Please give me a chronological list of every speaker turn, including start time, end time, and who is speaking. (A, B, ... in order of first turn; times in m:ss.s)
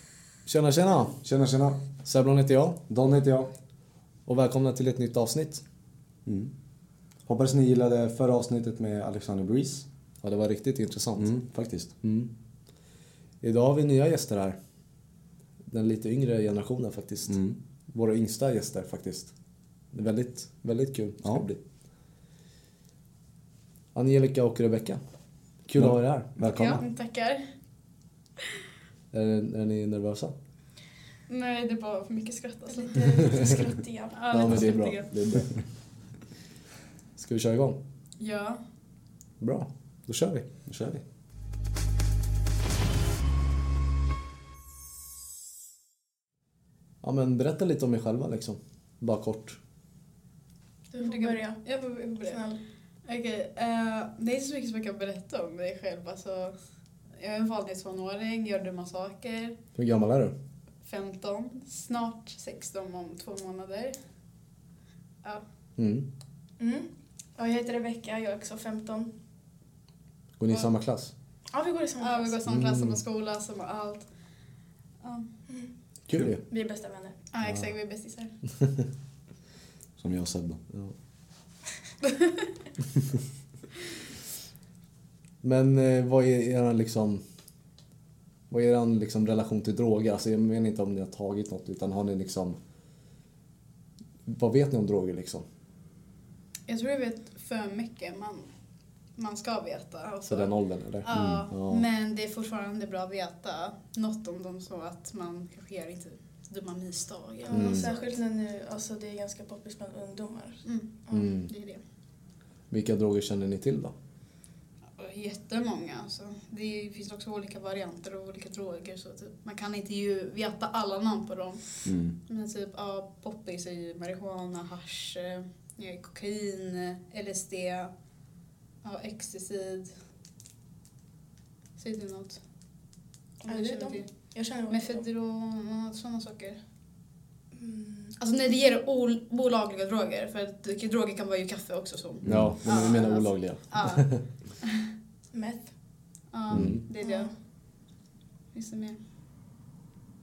0:00.5-0:01.2 A
0:01.2-0:01.8 B
0:02.0-0:02.8 A
0:02.9-0:03.5 B
0:04.3-0:05.6 A
0:06.2-0:06.5 B
0:07.3-0:09.9 B
0:10.2-0:11.4 A
0:11.2-0:11.9 B
0:12.0-0:12.3 A
0:13.4-0:14.6 A
0:15.7-0:19.3 A
0:17.3-0:17.6 B
0:19.9-0:21.6 A
0:24.0-0:25.0 A
0:25.6-0:26.3 A
0:25.8-0:26.8 B
0:26.5-0:27.5 C
0:29.1-0:30.3 A
0:31.3-0:33.5 C
0:32.7-0:34.2 D
0:34.1-0:35.1 C
0:34.3-0:35.7 A
0:37.2-0:37.8 A
0:38.2-0:38.6 C
0:39.4-0:40.5 A
0:40.7-0:41.0 B
0:47.0-0:49.6 A
0:50.9-0:51.6 D
0:50.9-0:52.4 C
0:52.2-0:52.6 D
0:53.1-0:56.6 C
0:57.2-0:59.6 C
0:59.8-1:00.3 A
1:00.8-1:04.0 C
1:05.8-1:06.1 A
1:06.6-1:09.1 D
1:10.4-1:11.1 A
1:11.5-1:12.4 D
1:12.0-1:14.1 C
1:12.5-1:13.0 A
1:15.0-1:15.3 C
1:16.1-1:16.4 A
1:16.5-1:17.2 D
1:17.3-1:18.3 C
1:20.0-1:20.6 B
1:25.4-1:27.2 A
1:28.5-1:32.6 A
1:34.3-1:35.4 A
1:36.7-1:38.5 C
1:39.2-1:48.0 C
1:40.3-1:41.8 A
1:41.1-1:41.4 B
1:47.5-1:51.4 D
1:47.5-1:47.9 A
1:50.6-1:51.8 C
1:51.1-1:51.5 A
1:52.7-1:53.9 A
1:55.0-2:07.9 C
2:01.8-2:02.2 B
2:08.8-2:09.9 C
2:11.8-2:12.4 C
2:13.4-2:16.6 C
2:13.5-2:15.0 D
2:17.6-2:18.2 D
2:18.2-2:24.8 C
2:22.2-2:22.6 B
2:22.3-2:24.2 A
2:25.3-2:25.7 D
2:26.3-2:27.3 C
2:26.5-2:26.8 A
2:26.5-2:26.8 B
2:27.0-2:27.3 D
2:28.5-2:29.0 C